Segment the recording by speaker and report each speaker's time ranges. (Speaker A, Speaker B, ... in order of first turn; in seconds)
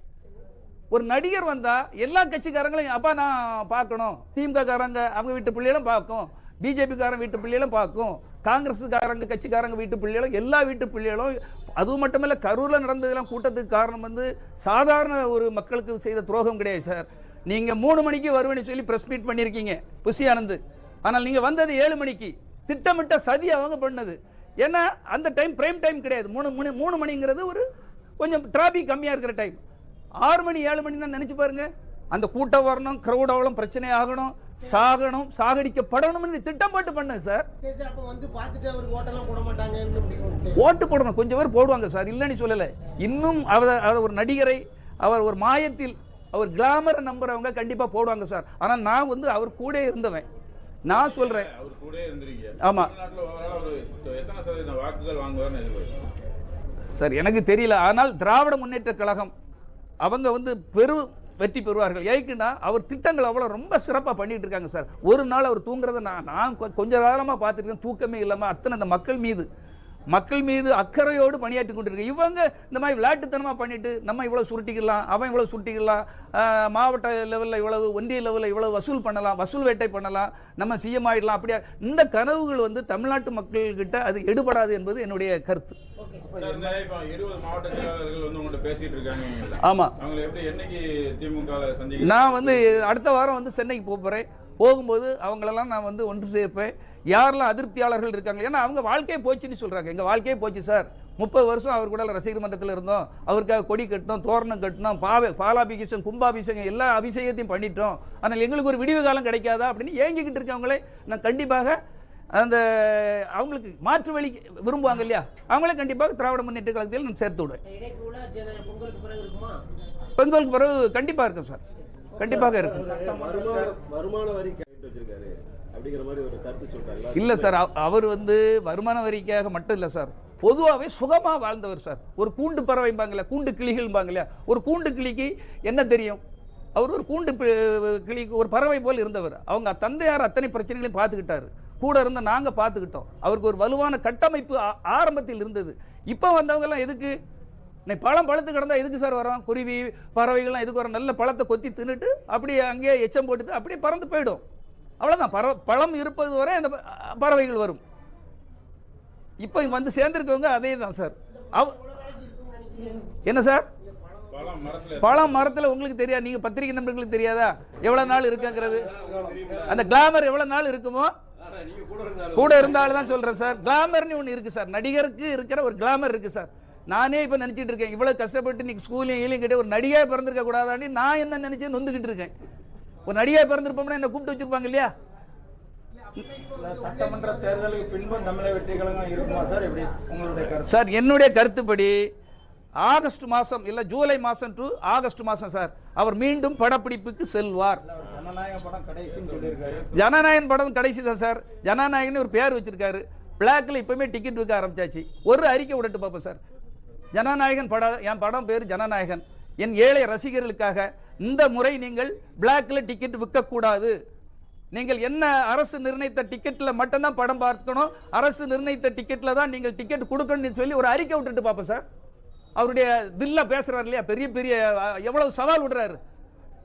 Speaker A: 0.9-27.6, 28.2-29.6, 30.2-37.5, 40.6-50.2, 50.9-51.5, 52.6-52.9, 56.9-59.3, 60.0-69.5, 70.1-85.8, 89.6-89.9, 92.0-111.8, 112.3-117.6, 120.2-121.6, 122.2-122.9, 127.1-136.2, 136.7-147.2, 147.8-154.4, 155.0-157.8, 159.4-161.8, 163.2-163.7, 165.0-168.9, 169.7-171.1, 172.3-182.3, 183.1-184.9, 190.7-192.1, 192.8-197.8, 199.9-206.4, 207.1-213.9, 214.7-221.8, 222.6-226.0
Speaker B: 37.6-40.6, 86.0-86.3, 117.6-119.6, 122.8-123.6, 161.3-163.2, 163.8-164.7, 185.9-189.8
Speaker C: 50.9-56.0, 86.3-92.8, 164.3-165.4, 168.8-169.7, 199.1-200.1
Speaker D: 86.2-86.8, 122.8-123.8, 186.6-190.7, 197.8-199.8
Speaker E: 122.2-127.5, 168.8-169.8, 171.4-173.2